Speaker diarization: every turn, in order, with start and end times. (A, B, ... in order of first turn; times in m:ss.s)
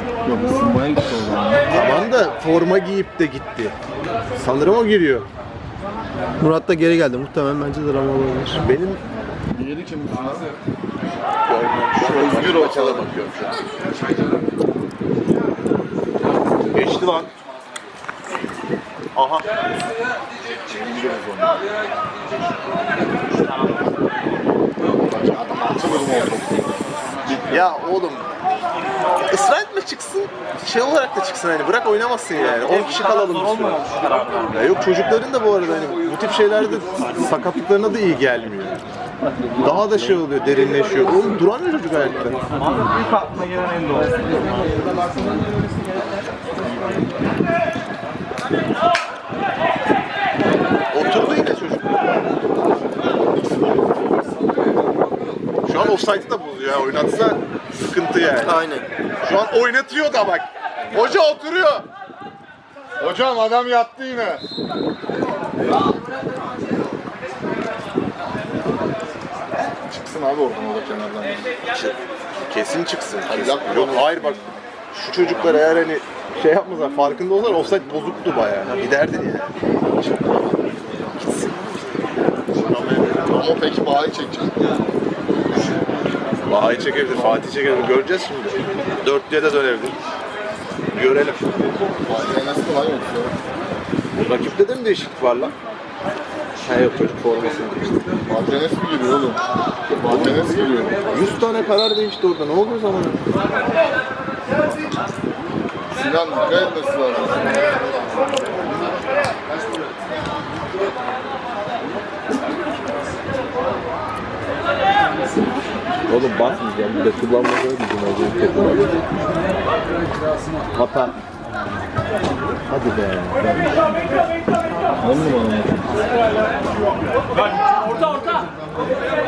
0:00.2-0:01.7 A
0:01.7-0:03.8 B
0:04.3-0:05.3 B
0:06.4-0:08.6 C
0:08.6-0:09.0 B
0:09.5-0:10.5 A
0:11.4-0:13.6 B
0:12.0-0:13.5 A
0:16.7-0:17.3 B
0:19.1-0:19.5 B
0:20.6-0:21.7 A
0:23.3-0:23.9 D
0:25.1-0:25.6 B
0:25.2-0:27.7 A
0:27.5-0:28.3 B
0:29.2-0:33.8 B
0:32.4-0:34.7 D
0:34.5-0:38.8 B
0:39.6-0:40.2 A
0:39.6-0:42.4 B
0:42.5-0:45.0 D
0:50.9-0:52.1 B
0:53.3-0:54.2 A
0:55.7-0:58.6 B
0:58.4-0:58.9 C
0:59.2-1:01.8 B
1:03.0-1:04.4 A
1:09.8-1:11.5 A
1:11.7-1:22.0 B
1:13.3-1:14.6 A
1:22.5-1:23.3 B
1:23.2-1:24.7 A
1:26.4-1:30.0 B
1:30.9-1:31.9 B
1:32.0-1:33.4 A
1:34.2-1:35.5 B
1:36.6-1:38.0 B
1:38.2-1:41.0 A
1:40.1-1:40.4 B
1:41.1-1:43.3 B
1:46.0-1:48.0 A
1:56.1-1:58.9 B
2:00.7-2:01.2 B
2:02.7-2:03.6 B
2:05.0-2:06.1 A
2:07.7-2:08.5 B